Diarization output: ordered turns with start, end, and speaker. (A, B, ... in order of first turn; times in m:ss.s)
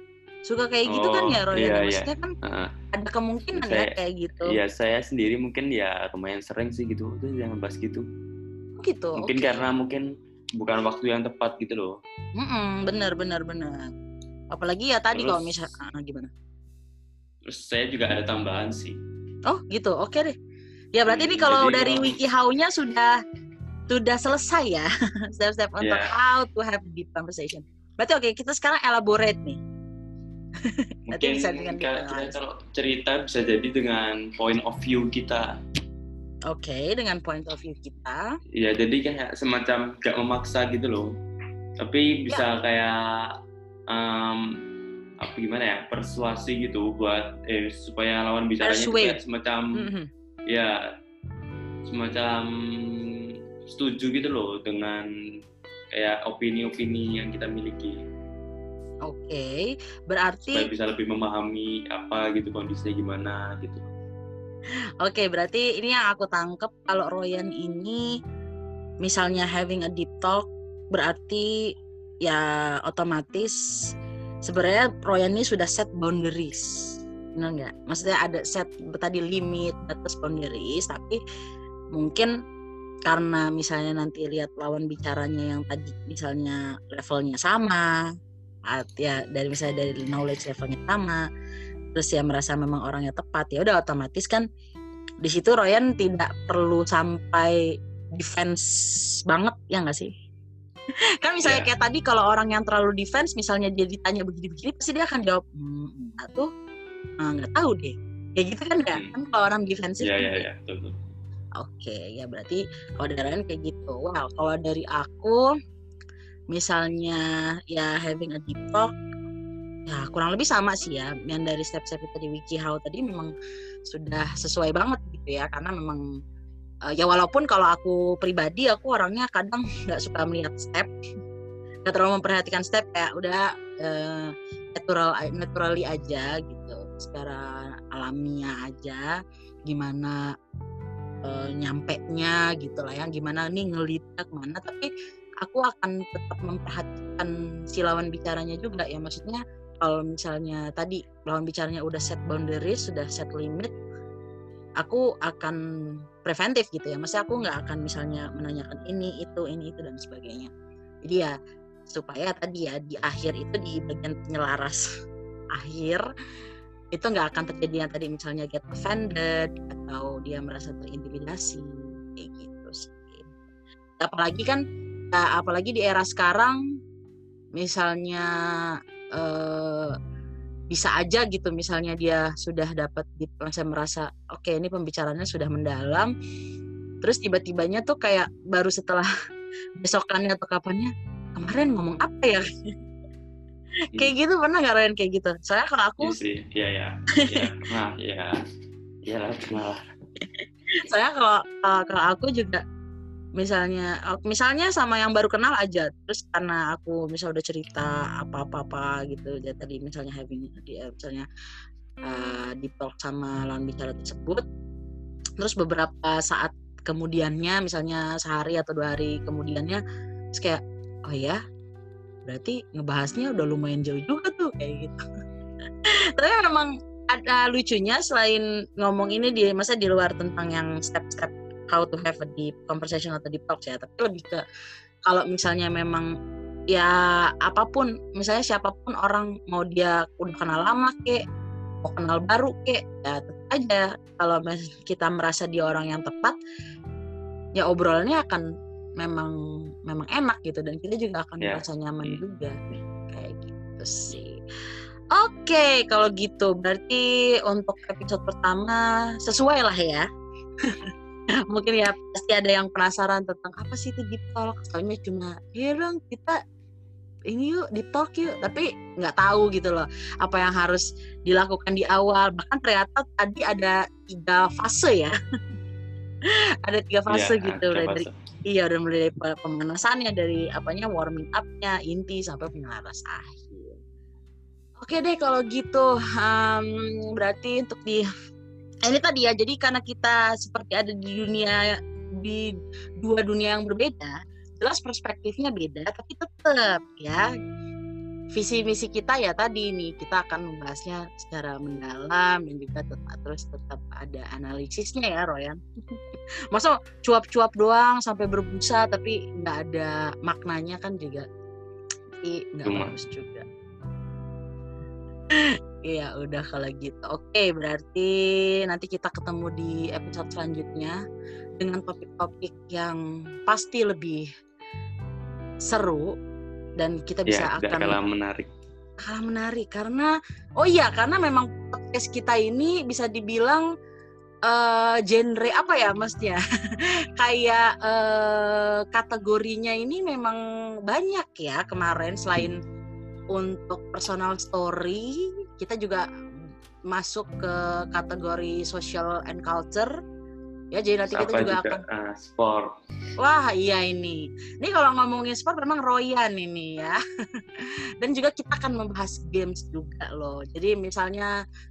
0:00.4-0:02.3 A
0:00.9-0:02.7 B
0:02.9-0:04.5 A
0:03.5-0:03.9 B
0:04.4-0:08.0 B
0:08.8-0:09.6 A
0:09.2-0:10.0 B
0:10.6-0:11.9 B
0:12.4-0:13.8 A
0:14.5-0:16.3 A
0:15.1-0:15.7 B
0:17.5-0:19.0 B
0:19.5-0:20.3 A
0:20.9-0:23.1 A
0:21.1-0:22.2 B
0:23.9-0:29.6 A
0:25.8-0:26.1 B
0:30.6-0:32.4 A
0:31.1-0:35.6 B
0:36.5-0:38.2 A
0:38.6-0:41.1 B
0:41.8-0:42.9 B
0:43.9-0:44.4 B
0:45.2-0:49.8 B
0:48.6-0:49.2 A
0:49.7-0:50.1 A
0:50.5-0:50.8 B
0:51.8-0:55.0 B
0:55.9-0:58.0 B
0:59.0-0:59.5 A
1:00.1-1:00.7 A
1:00.5-1:03.9 B
1:05.0-1:08.0 A
1:09.0-1:11.6 A
1:12.2-1:13.6 A
1:14.4-1:21.2 A
1:21.9-1:22.3 A
1:23.1-1:27.9 A
1:28.7-1:31.2 A
1:31.9-1:34.4 A
1:35.2-1:37.6 A
1:38.1-1:40.1 A
1:41.2-1:46.5 A
1:47.2-1:50.4 A
1:50.0-1:50.9 B
1:51.6-1:55.4 A
1:56.5-1:57.2 A
1:57.7-1:58.9 A
1:59.9-2:03.3 A
2:03.9-2:06.0 A
2:06.9-2:10.9 A
2:11.8-2:19.1 A
2:19.7-2:20.2 A
2:21.2-2:24.9 A
2:25.4-2:33.7 A
2:34.8-2:35.6 A
2:36.2-2:40.5 A
2:41.0-2:41.3 A
2:41.9-2:44.8 A
2:45.5-2:46.0 A
2:46.9-2:53.4 A
2:54.0-2:56.6 A
2:57.6-2:58.3 A
2:59.2-2:59.9 A
3:00.7-3:06.1 A
3:07.0-3:09.1 A
3:09.8-3:12.4 A
3:13.9-3:16.1 A
3:16.0-3:18.3 B
3:17.2-3:17.5 A
3:19.0-3:19.9 B
3:20.2-3:22.6 A
3:23.4-3:31.2 A
3:32.0-3:34.4 A
3:35.4-3:39.8 A
3:40.3-3:41.4 A
3:42.2-3:45.0 A
3:45.8-3:54.4 A
3:55.0-3:56.1 A
3:56.7-4:01.2 A
4:01.8-4:06.4 A
4:07.6-4:08.4 A
4:09.0-4:09.3 A
4:09.9-4:12.5 A
4:11.4-4:12.2 B
4:13.1-4:14.4 A
4:15.1-4:20.0 A
4:21.5-4:26.4 A
4:27.3-4:35.1 A
4:36.6-4:43.8 A
4:37.1-4:38.1 B
4:44.8-4:48.1 A
4:48.8-4:57.3 A
4:58.3-5:05.6 A
5:06.5-5:11.2 A
5:12.2-5:13.4 A
5:12.6-5:12.9 B
5:15.3-5:21.0 A
5:21.6-5:24.2 A
5:25.6-5:26.1 A
5:26.8-5:28.0 A
5:27.3-5:28.5 B
5:29.0-5:33.6 A
5:34.4-5:42.6 A
5:43.3-5:46.0 A
5:46.9-5:49.9 A
5:50.7-5:51.8 A
5:51.1-5:52.7 B
5:53.2-5:57.0 A
5:58.0-6:01.3 A